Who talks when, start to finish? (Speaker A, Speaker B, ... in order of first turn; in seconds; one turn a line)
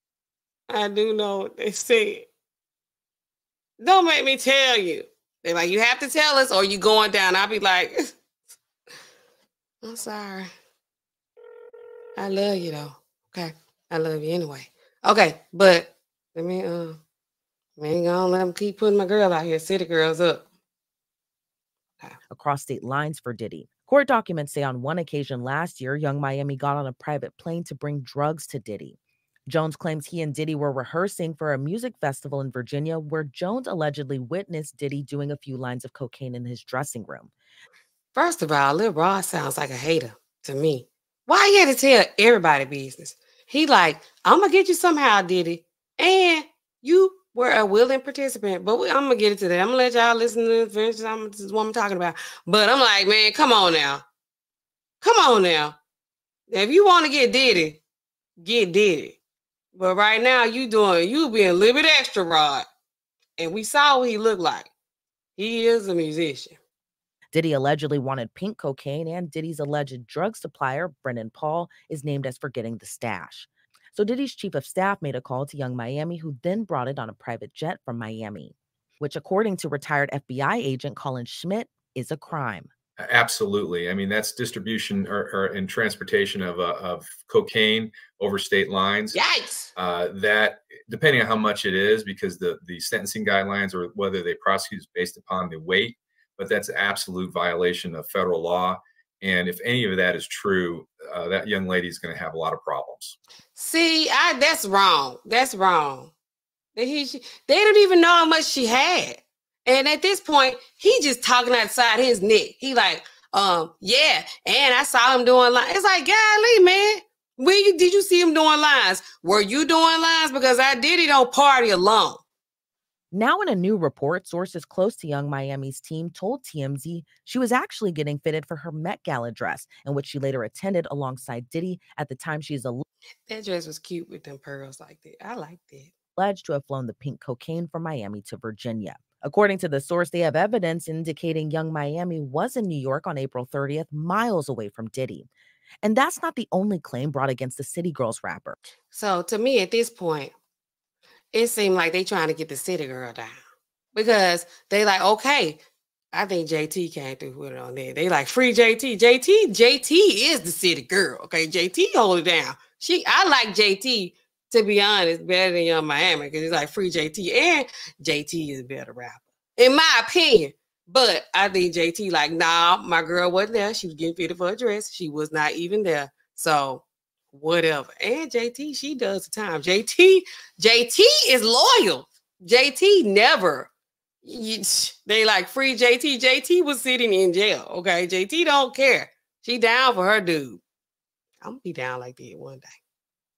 Speaker A: 0.7-2.3
Speaker A: 3.8-8.1
Speaker A: 9.8-10.5
Speaker A: 12.2-17.0
Speaker A: 17.8-20.5
Speaker B: 22.3-28.9
Speaker B: 29.5-37.3
Speaker A: 38.1-54.0
Speaker A: 55.0-55.8
Speaker A: 56.5-57.8
Speaker A: 58.4-59.2
Speaker A: 59.7-62.6
Speaker A: 63.4-64.7
Speaker A: 65.4-66.6
Speaker B: 67.3-82.7
Speaker C: 83.0-89.2
Speaker A: 89.1-89.7
Speaker C: 89.7-103.2
Speaker A: 103.6-106.1
Speaker A: 106.7-122.2
Speaker B: 123.1-132.8
Speaker A: 133.3-135.9
Speaker B: 136.2-145.3
Speaker B: 145.8-148.6
Speaker A: 148.9-150.3
Speaker A: 151.3-153.4
Speaker A: 153.9-155.6
Speaker A: 156.1-183.7
Speaker A: 184.2-190.6
Speaker A: 191.4-192.8